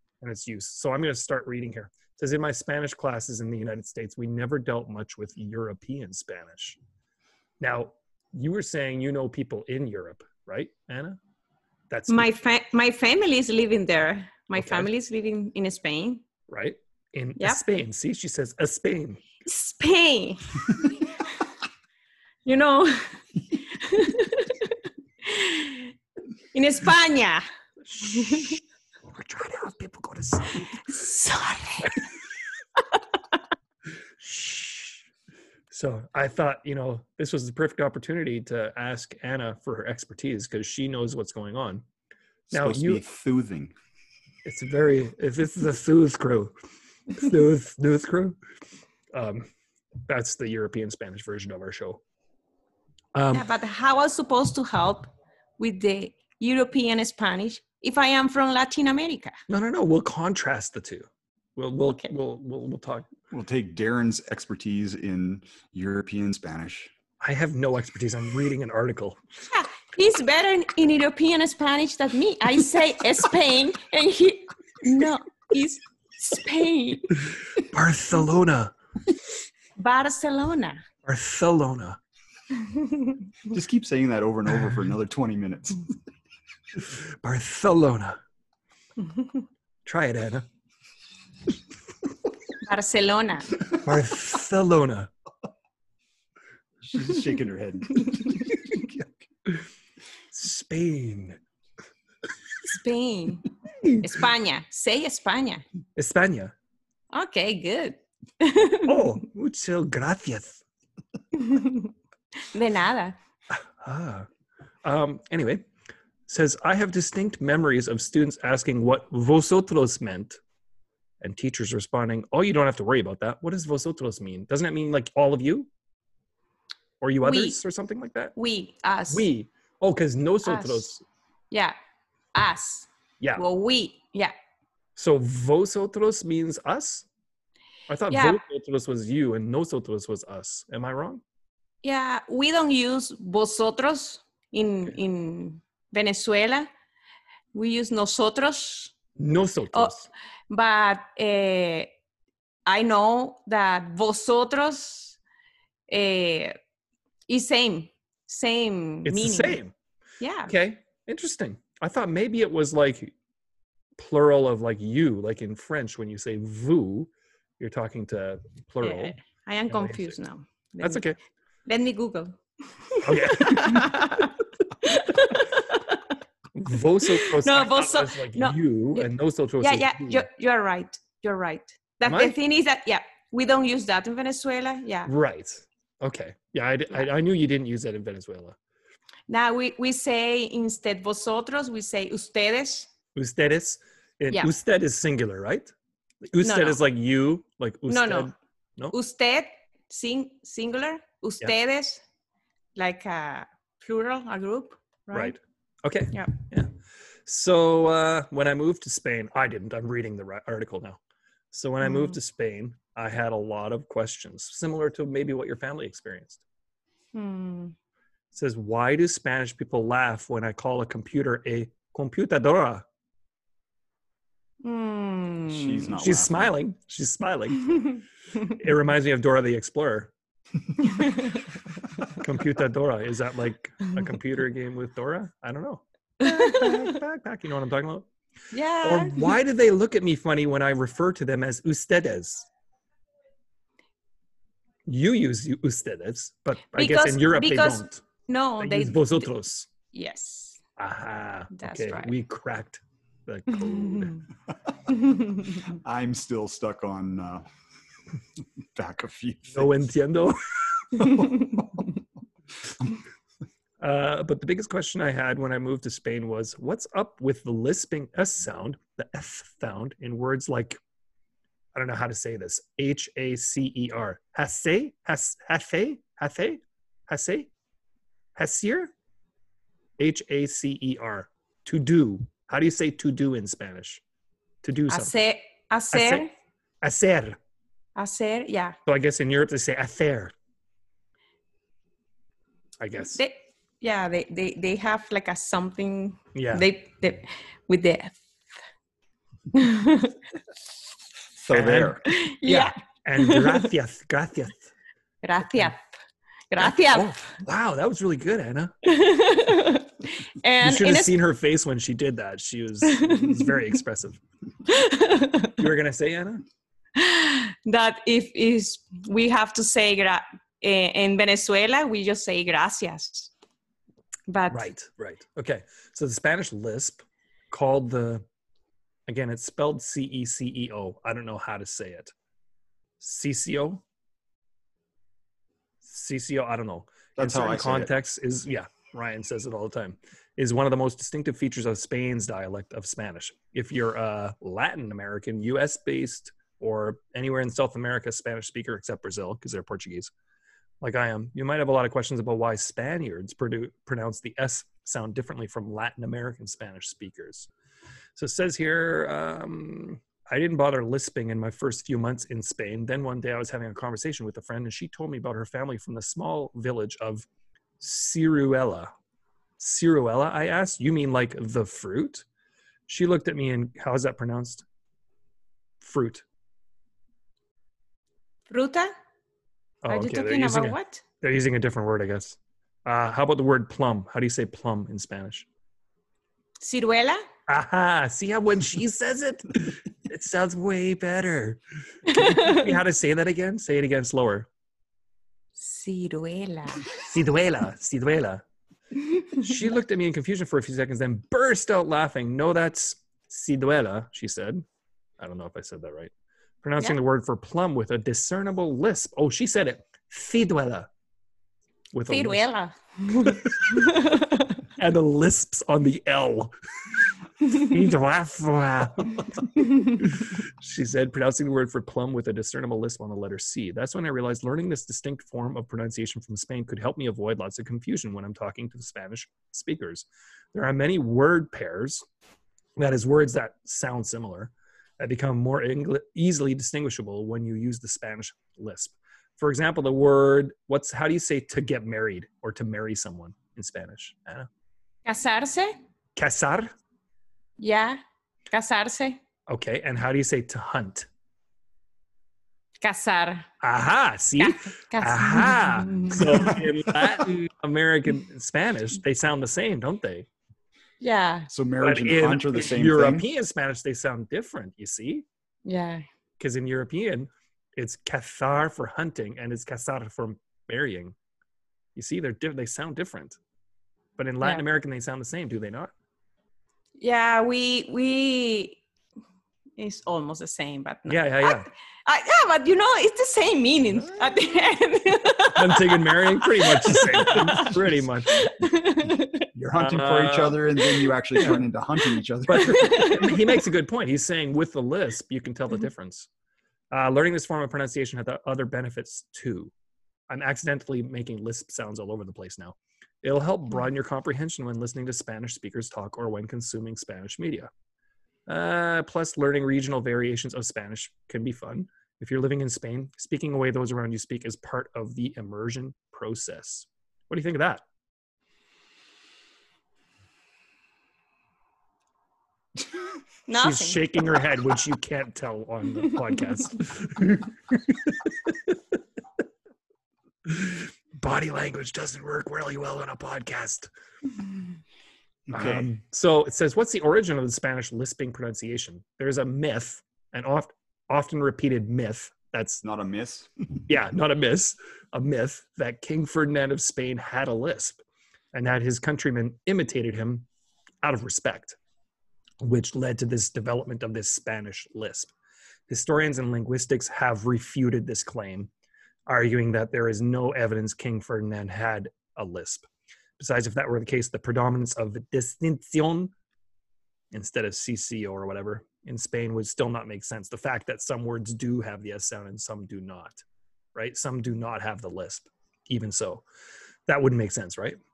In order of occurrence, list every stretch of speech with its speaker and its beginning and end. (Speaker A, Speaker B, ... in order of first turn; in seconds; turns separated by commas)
Speaker A: 0.2-6.8, Speaker A: 7.6-11.2, Speaker A: 11.9-12.4, Speaker B: 12.1-16.2, Speaker A: 14.6-14.9, Speaker A: 16.5-19.2, Speaker B: 19.5-21.3, Speaker B: 22.4-25.9, Speaker B: 26.5-27.4, Speaker A: 27.9-31.0, Speaker B: 28.1-28.5, Speaker B: 30.9-32.0, Speaker A: 34.2-35.0, Speaker A: 35.7-41.8, Speaker C: 42.5-43.8, Speaker A: 42.5-43.0, Speaker A: 44.5-46.5, Speaker A: 47.1-48.4, Speaker A: 49.1-49.5, Speaker A: 50.1-52.0, Speaker A: 53.1-53.5, Speaker B: 53.3-59.4, Speaker A: 59.5-63.1, Speaker C: 63.3-66.9, Speaker A: 67.2-69.2, Speaker B: 69.5-77.1, Speaker A: 77.6-78.7, Speaker B: 79.8-80.8, Speaker A: 81.0-82.0, Speaker B: 82.6-83.2, Speaker C: 83.5-85.9, Speaker A: 86.9-88.2, Speaker A: 89.9-90.5, Speaker B: 92.6-93.6, Speaker A: 93.7-95.1, Speaker C: 96.8-99.1, Speaker A: 100.3-101.4, Speaker B: 102.6-105.6, Speaker A: 106.0-106.5, Speaker B: 107.1-109.1, Speaker A: 108.8-110.6, Speaker B: 111.3-111.9, Speaker B: 112.5-113.2, Speaker A: 113.5-114.3, Speaker A: 114.8-115.7, Speaker A: 116.3-120.4, Speaker A: 121.2-125.7, Speaker A: 127.0-128.3, Speaker B: 127.2-127.6, Speaker B: 128.4-129.3, Speaker A: 129.1-131.0, Speaker B: 130.4-130.9, Speaker B: 132.3-134.3, Speaker A: 135.0-137.1, Speaker A: 137.9-141.2, Speaker B: 138.1-138.4, Speaker B: 141.8-146.7, Speaker B: 147.5-148.9, Speaker A: 149.2-150.1, Speaker B: 150.5-151.9, Speaker B: 152.7-155.2, Speaker B: 155.9-156.6, Speaker B: 157.3-159.6, Speaker A: 159.1-159.7, Speaker B: 160.2-160.5, Speaker A: 160.5-163.1, Speaker A: 164.0-169.2, Speaker B: 168.8-171.1, Speaker A: 169.7-170.2, Speaker A: 170.8-171.2, Speaker B: 171.7-176.1, Speaker A: 173.0-174.3, Speaker A: 176.6-180.3, Speaker B: 177.1-179.1, Speaker B: 179.6-185.1, Speaker A: 182.0-182.4, Speaker A: 185.1-188.6, Speaker B: 189.3-192.9, Speaker A: 193.2-195.7, Speaker A: 196.3-198.9, Speaker B: 196.4-196.8, Speaker B: 197.9-198.3, Speaker B: 198.9-202.0, Speaker B: 202.8-205.4, Speaker A: 205.1-206.7, Speaker A: 207.2-211.0, Speaker A: 211.5-216.4, Speaker B: 211.9-212.2, Speaker B: 217.1-217.7, Speaker A: 218.3-222.8, Speaker B: 224.6-225.9, Speaker C: 225.5-226.5, Speaker A: 226.0-230.1, Speaker A: 232.1-238.1, Speaker B: 236.2-236.9, Speaker B: 238.5-239.3, Speaker A: 238.8-242.5, Speaker A: 244.9-248.0, Speaker B: 246.7-249.3, Speaker A: 248.6-249.7, Speaker B: 249.9-250.6, Speaker A: 250.8-254.2, Speaker B: 251.5-252.1, Speaker B: 254.9-255.6, Speaker C: 255.6-257.5, Speaker C: 258.8-259.8, Speaker A: 259.5-261.4, Speaker C: 261.4-261.8, Speaker A: 263.8-270.8, Speaker A: 271.8-277.5, Speaker A: 278.4-278.9, Speaker A: 280.0-284.0, Speaker A: 284.6-285.1, Speaker B: 284.9-286.3, Speaker A: 285.9-286.3, Speaker A: 286.8-287.4, Speaker B: 288.0-288.8, Speaker A: 288.9-290.3, Speaker A: 292.8-293.2, Speaker B: 293.1-298.2, Speaker A: 296.3-296.7, Speaker B: 299.5-300.2, Speaker C: 301.4-302.0, Speaker A: 301.5-304.7, Speaker B: 302.1-303.7, Speaker B: 305.2-305.8, Speaker B: 306.5-307.2, Speaker A: 306.6-308.7, Speaker B: 308.8-311.1, Speaker A: 310.6-314.2, Speaker B: 312.9-313.5, Speaker B: 314.7-315.6, Speaker A: 315.6-316.4, Speaker B: 316.9-323.3, Speaker B: 324.3-324.7, Speaker A: 324.5-328.2, Speaker A: 329.1-332.1, Speaker A: 333.0-333.8, Speaker A: 335.8-350.1, Speaker C: 337.2-337.9, Speaker A: 350.8-357.5, Speaker A: 358.2-367.3, Speaker A: 367.8-368.9, Speaker A: 369.6-372.2, Speaker A: 372.9-374.6, Speaker A: 375.8-376.2, Speaker B: 378.5-378.9, Speaker A: 379.8-385.5, Speaker B: 379.9-381.0, Speaker B: 386.6-387.2, Speaker A: 387.5-394.5, Speaker B: 392.1-392.6, Speaker B: 395.6-396.9, Speaker A: 397.0-398.4, Speaker A: 399.3-404.6, Speaker A: 405.2-406.1, Speaker A: 406.6-410.9, Speaker A: 411.9-412.5, Speaker B: 412.1-414.6, Speaker A: 413.2-413.8, Speaker A: 414.8-416.5, Speaker A: 417.4-432.0, Speaker A: 432.8-444.5, Speaker B: 445.0-445.8, Speaker A: 446.2-446.7, Speaker B: 447.6-449.2, Speaker A: 449.5-451.1, Speaker B: 452.8-453.5, Speaker A: 453.6-460.3, Speaker B: 454.4-456.5, Speaker B: 461.0-461.5, Speaker C: 461.5-463.2, Speaker A: 461.8-465.2, Speaker B: 465.6-466.0, Speaker A: 466.4-471.1, Speaker A: 472.0-473.4, Speaker A: 474.2-475.9, Speaker B: 477.0-478.8, Speaker B: 479.8-489.5, Speaker A: 481.1-481.7, Speaker A: 485.5-488.5, Speaker C: 489.5-493.2, Speaker A: 489.8-490.6, Speaker A: 492.5-496.3, Speaker B: 492.7-493.4, Speaker A: 496.9-499.7, Speaker A: 500.3-507.7, Speaker A: 508.5-517.8, Speaker B: 523.5-524.1, Speaker A: 523.5-527.5, Speaker A: 528.1-528.8, Speaker A: 530.5-533.9, Speaker C: 535.5-535.9, Speaker A: 535.5-542.8, Speaker C: 542.8-543.5, Speaker A: 543.9-548.0, Speaker A: 548.5-550.5, Speaker A: 551.0-551.8, Speaker A: 552.6-555.3, Speaker A: 555.9-558.7, Speaker A: 559.3-562.9, Speaker A: 563.4-566.3, Speaker A: 567.3-573.4, Speaker A: 574.0-576.4, Speaker A: 577.1-578.0